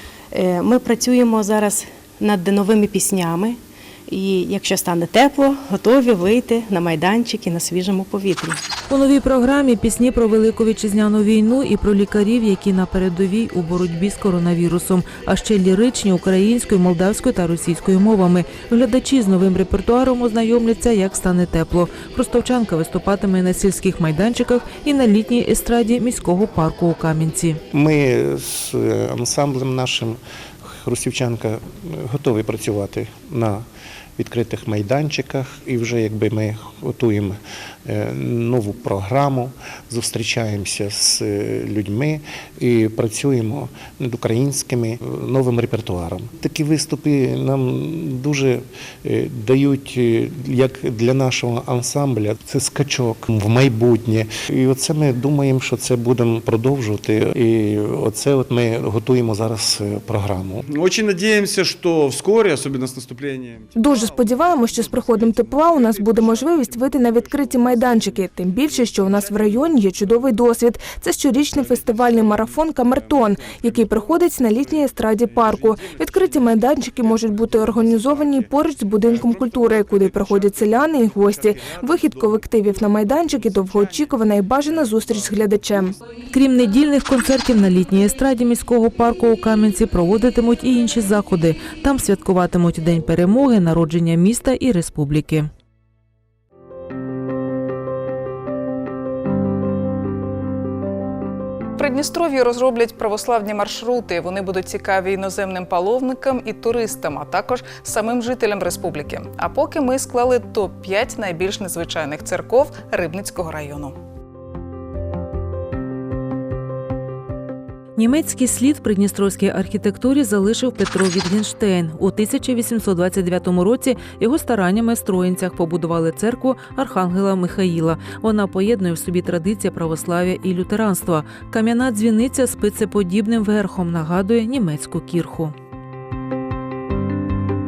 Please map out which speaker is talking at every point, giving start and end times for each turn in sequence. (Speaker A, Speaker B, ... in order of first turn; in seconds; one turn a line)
Speaker A: 0.3-8.6
Speaker B: 8.9-27.6
Speaker C: 27.7-33.6
Speaker C: 34.1-60.6
Speaker D: 60.6-63.7
Speaker E: 63.8-86.0
Speaker B: 86.3-95.5
Speaker F: 101.8-113.9
Speaker B: 118.0-135.5